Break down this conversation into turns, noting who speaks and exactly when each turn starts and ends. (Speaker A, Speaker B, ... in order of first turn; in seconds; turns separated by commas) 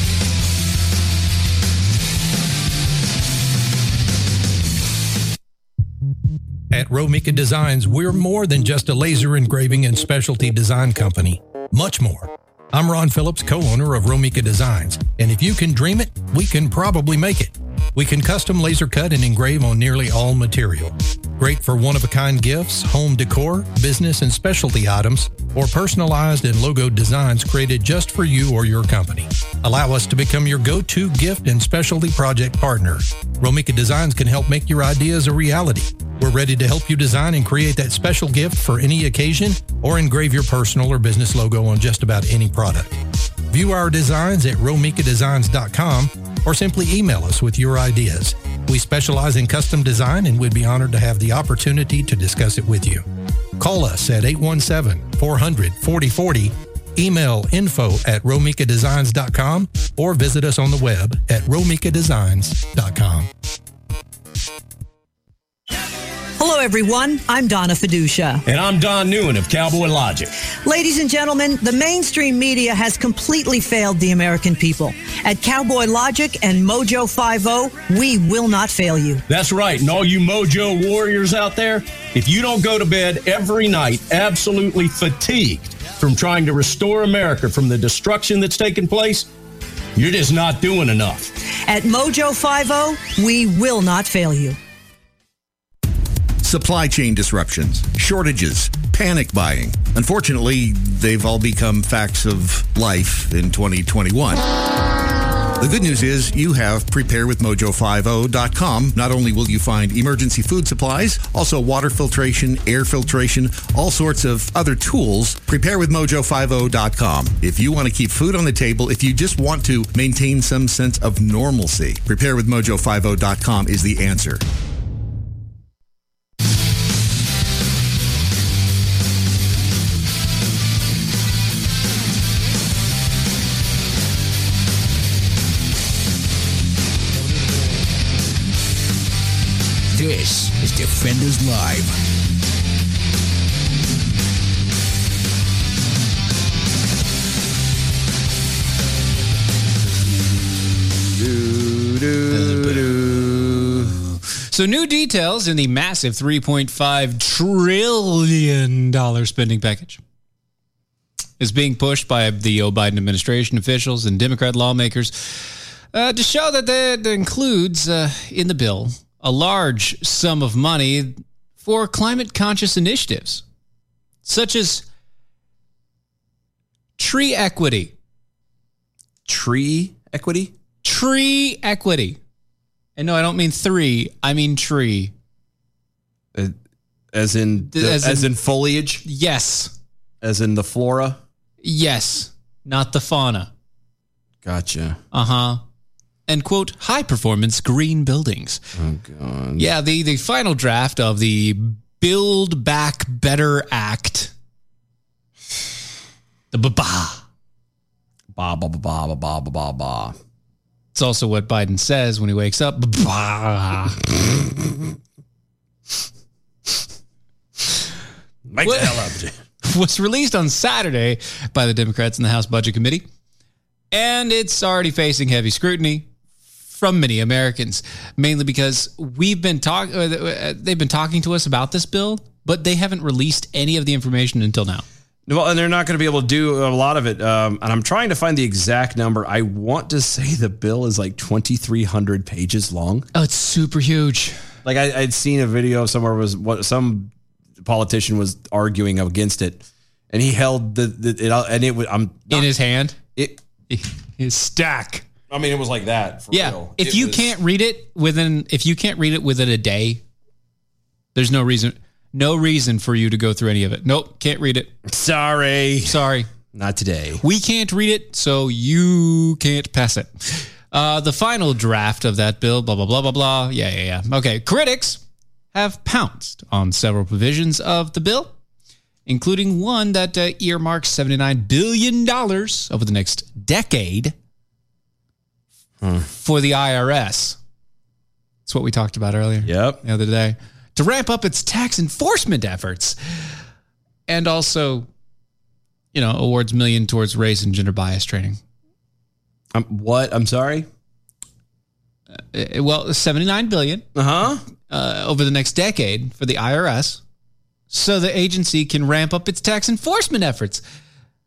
Speaker A: 6.7-43.0, Speaker A: 43.5-53.0, Speaker A: 53.6-63.3, Speaker B: 66.4-68.4, Speaker C: 68.5-70.3, Speaker B: 70.6-79.2, Speaker C: 79.3-89.3, Speaker C: 90.0-91.3, Speaker B: 91.6-94.6, Speaker D: 96.4-104.4, Speaker D: 105.6-124.4, Speaker E: 139.9-141.9, Speaker F: 151.0-153.9, Speaker G: 152.3-153.1, Speaker G: 154.5-160.0, Speaker G: 161.4-173.4, Speaker G: 174.2-174.8, Speaker G: 177.0-177.9, Speaker F: 179.3-180.5, Speaker G: 180.8-182.2, Speaker G: 183.0-185.1, Speaker F: 187.1-189.0, Speaker G: 187.7-188.3, Speaker G: 189.0-189.7, Speaker F: 190.2-191.2, Speaker G: 191.6-193.5, Speaker F: 194.4-195.0, Speaker G: 195.1-195.6, Speaker G: 196.3-198.6, Speaker F: 198.8-199.7, Speaker G: 199.6-204.3, Speaker G: 206.5-207.2, Speaker F: 208.3-210.1, Speaker G: 210.9-214.0, Speaker F: 218.5-219.3, Speaker G: 218.6-219.0, Speaker G: 219.6-223.0, Speaker G: 223.9-226.1, Speaker G: 226.7-234.8, Speaker F: 235.3-243.1, Speaker G: 243.1-244.4, Speaker F: 244.6-247.1, Speaker F: 247.6-252.5, Speaker G: 252.3-253.0, Speaker G: 253.7-255.0, Speaker F: 255.3-257.3, Speaker G: 256.3-260.0, Speaker G: 261.1-264.7, Speaker F: 264.9-266.0, Speaker G: 265.9-266.3, Speaker F: 266.5-267.2, Speaker G: 267.2-275.0, Speaker G: 275.5-278.3, Speaker G: 279.1-284.1, Speaker F: 285.8-286.1, Speaker G: 286.1-287.4, Speaker G: 288.4-292.9, Speaker F: 289.4-289.8, Speaker G: 294.1-294.9, Speaker G: 295.9-298.4, Speaker F: 299.5-300.6, Speaker G: 302.3-303.8, Speaker F: 303.9-304.4, Speaker G: 304.7-307.0, Speaker G: 307.7-310.6